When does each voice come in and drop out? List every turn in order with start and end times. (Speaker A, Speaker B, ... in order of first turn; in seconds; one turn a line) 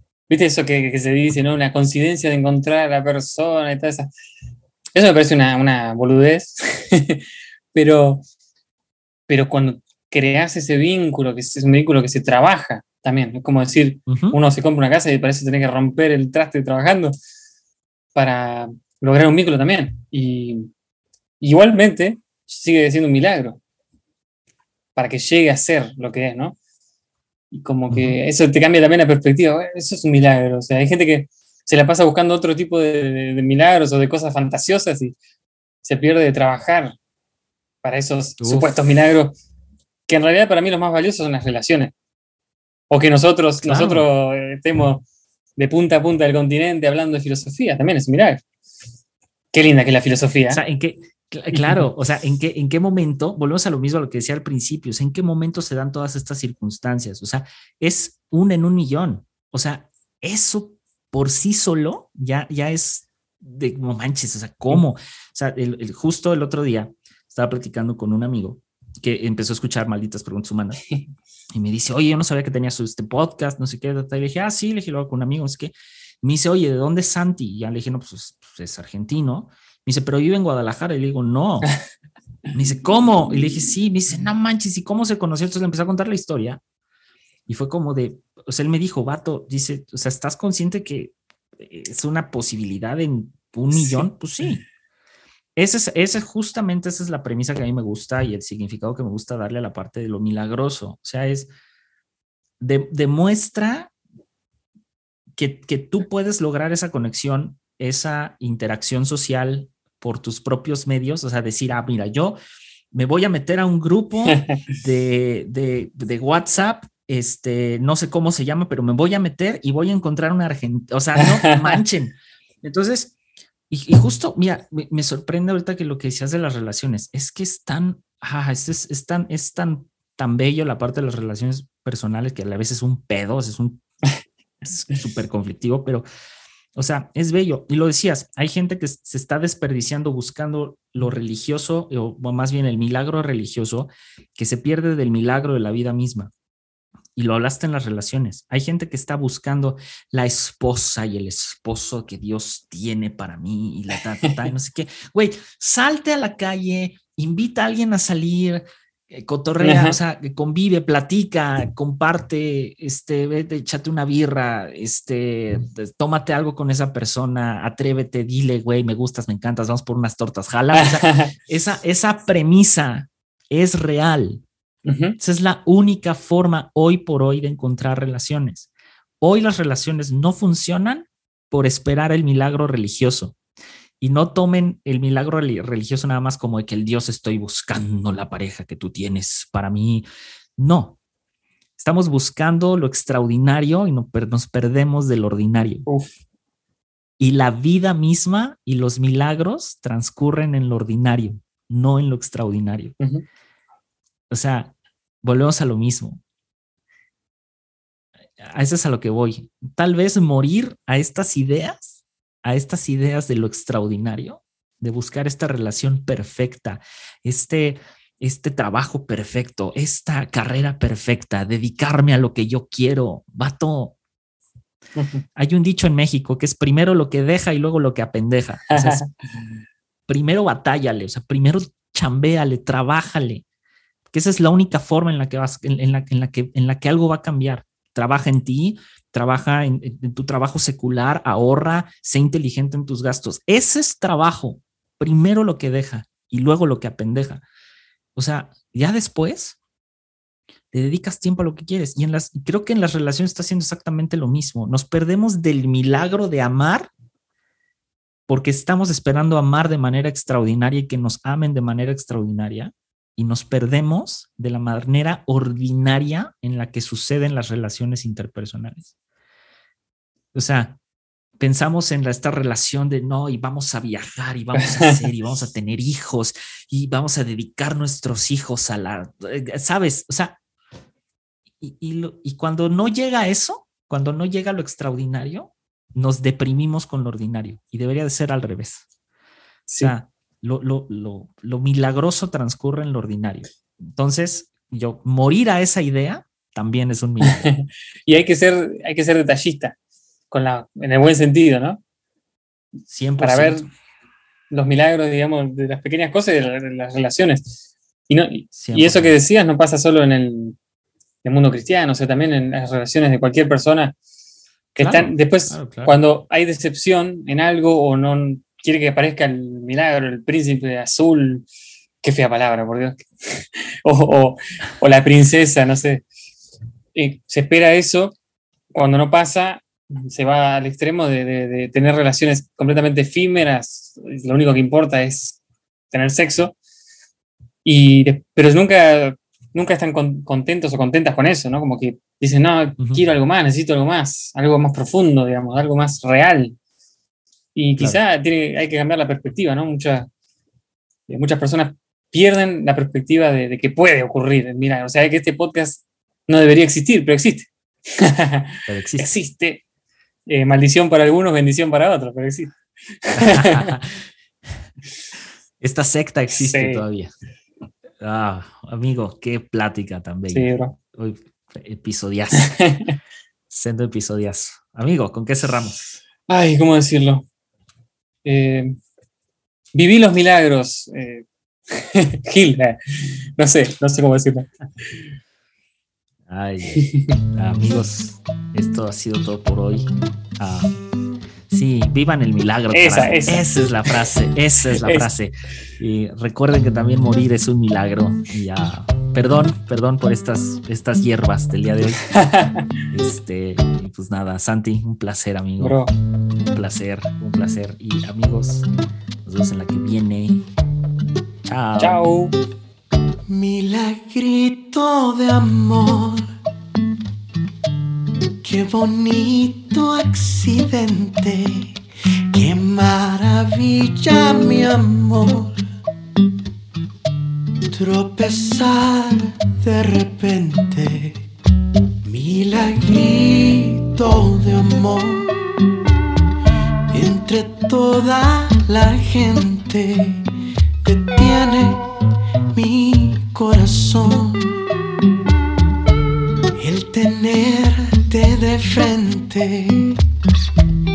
Speaker A: 0.3-4.1
Speaker A: 4.9-8.2
Speaker A: 9.3-17.1
Speaker B: 14.1-14.4
Speaker A: 18.1-20.7
Speaker A: 21.4-23.6
Speaker A: 24.9-26.6
Speaker A: 27.5-35.1
Speaker B: 27.9-28.2
Speaker A: 35.8-37.0
Speaker A: 37.8-39.4
Speaker B: 38.4-38.7
Speaker A: 40.1-41.9
Speaker A: 42.9-45.0
Speaker B: 43.6-44.1
Speaker A: 45.6-48.4
Speaker A: 49.5-50.6
Speaker B: 50.5-70.8
Speaker A: 51.5-51.8
Speaker B: 71.5-81.8
Speaker B: 82.5-86.6
Speaker B: 87.5-94.6
Speaker A: 93.7-94.1
Speaker B: 95.5-101.5
Speaker B: 102.6-103.9
Speaker B: 105.3-112.4
Speaker B: 112.9-123.2
Speaker A: 114.3-114.6
Speaker A: 121.2-121.8
Speaker B: 123.7-133.8
Speaker B: 134.6-136.0
Speaker B: 136.7-146.3
Speaker B: 147.2-174.4
Speaker A: 159.6-160.0
Speaker A: 170.7-171.3
Speaker A: 174.8-175.2
Speaker B: 175.2-178.7
Speaker B: 179.2-183.4
Speaker B: 184.0-190.1
Speaker B: 190.6-191.0
Speaker B: 191.8-195.8
Speaker B: 197.2-202.9
Speaker A: 203.0-203.2
Speaker B: 204.3-206.2
Speaker B: 208.4-224.0
Speaker A: 225.0-225.2
Speaker B: 225.3-229.1
Speaker A: 228.7-229.1
Speaker B: 230.1-233.4
Speaker B: 234.1-247.4
Speaker B: 248.2-249.6
Speaker B: 250.7-256.9
Speaker B: 258.3-268.9
Speaker B: 270.3-270.8
Speaker B: 271.4-280.4
Speaker A: 274.6-275.0
Speaker B: 281.6-288.8
Speaker A: 289.7-289.9
Speaker B: 289.8-297.5
Speaker A: 297.2-299.8
Speaker A: 300.3-301.8
Speaker B: 302.9-303.7
Speaker A: 303.2-303.7
Speaker A: 304.5-307.5
Speaker A: 308.1-310.6
Speaker B: 308.5-309.1
Speaker A: 311.2-313.9
Speaker A: 314.7-321.4
Speaker B: 314.8-316.0
Speaker A: 322.0-326.0
Speaker A: 326.9-328.1
Speaker A: 328.7-335.4
Speaker A: 335.9-336.5
Speaker A: 337.6-346.6
Speaker A: 347.5-350.1
Speaker A: 351.1-359.6
Speaker B: 358.7-359.1
Speaker A: 360.3-363.7
Speaker B: 363.2-363.9
Speaker B: 365.6-367.1
Speaker A: 366.3-366.8
Speaker B: 368.0-372.5
Speaker A: 370.3-370.7
Speaker A: 372.3-373.0
Speaker B: 373.5-375.9
Speaker A: 376.3-377.2
Speaker A: 378.2-378.8
Speaker A: 379.7-382.8
Speaker A: 383.4-385.0
Speaker B: 386.3-390.7
Speaker A: 386.8-387.1
Speaker B: 391.5-402.0
Speaker A: 392.7-393.9
Speaker A: 394.8-395.1
Speaker A: 402.1-402.7
Speaker B: 402.9-405.8
Speaker A: 405.6-405.9
Speaker B: 406.3-408.7
Speaker B: 409.2-410.4
Speaker B: 411.4-412.0
Speaker A: 411.8-412.3
Speaker C: 413.3-416.3
Speaker C: 418.4-421.7
Speaker C: 422.3-425.6
Speaker C: 427.7-431.2
Speaker C: 432.0-435.4
Speaker C: 436.9-440.3
Speaker C: 440.8-441.8
Speaker C: 442.5-444.5
Speaker C: 446.6-450.0